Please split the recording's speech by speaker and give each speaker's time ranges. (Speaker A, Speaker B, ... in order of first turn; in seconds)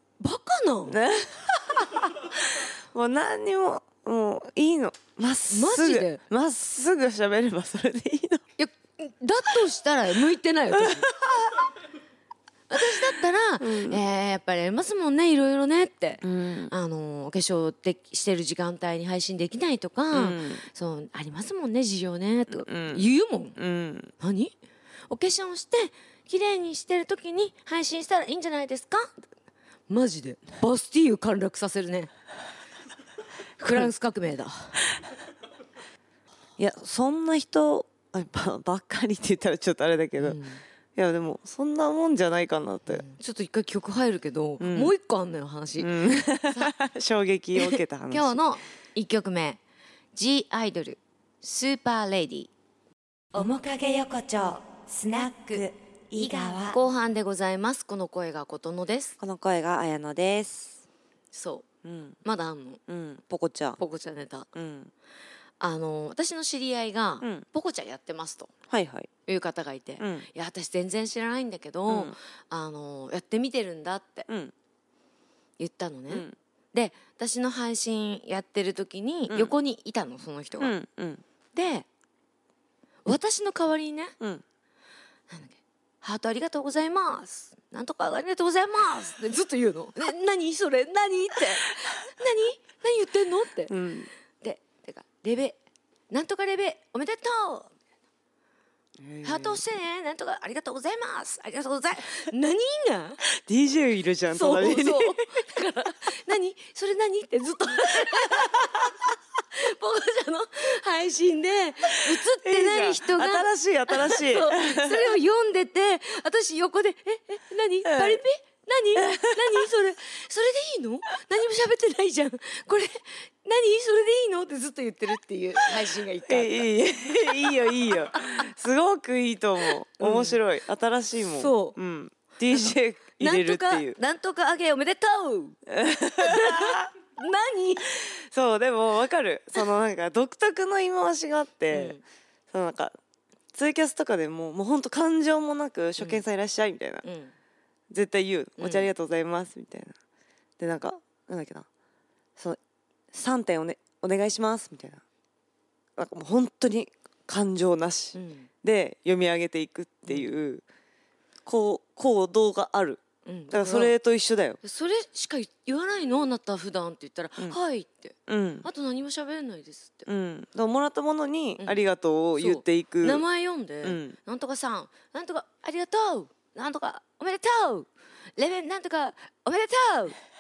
Speaker A: 0.2-1.0, 5.5-6.2, 8.6-11.1, 12.7-23.6, 24.2-24.5, 25.1-29.1, 29.9-32.1, 33.6-34.9, 40.2-40.6, 42.9-45.9, 46.5-46.7, 47.6-49.6, 50.1-52.5, 56.1-59.2, 61.3-61.6, 62.2-62.8, 63.8-64.5, 65.6-68.5, 69.2-74.3, 75.6-80.8, 81.5-81.9, 83.0-84.1, 85.3-93.7, 94.4-95.6, 96.1-97.7, 99.2-103.2, 104.3-109.0, 109.5-128.5, 129.6-130.4, 131.3-131.8, 133.2-135.6, 136.2-137.9, 141.7-142.0, 147.0-147.3, 148.6-148.9, 158.1-158.5, 160.1-160.3, 163.2-163.9, 164.6-170.1, 171.6-171.8, 172.3-180.2
Speaker B: 0.9-8.4, 10.7-11.7, 13.6-14.0, 16.2-16.7, 20.1-20.6, 22.5-23.1, 23.6-24.1, 36.6-40.4, 41.0-43.0, 44.6-44.9, 45.8-48.4, 56.5-56.7, 59.2-60.8, 61.8-62.2, 62.9-63.8, 64.5-64.9, 68.7-69.1, 70.0-70.3, 71.9-72.2, 76.1-76.3, 79.3-79.5, 80.6-81.2, 93.7-94.1, 99.0-99.6, 103.3-105.2, 112.1-115.2, 117.8-118.2, 119.0-119.7, 126.2-134.0, 135.7-136.9, 137.8-142.0, 142.5-142.9, 143.5-147.0, 147.9-149.9, 150.6-151.7, 153.1-155.0, 156.0-160.6, 161.4-164.6, 168.3-168.7, 170.1-173.2, 173.8-174.2
Speaker C: 53.3-56.5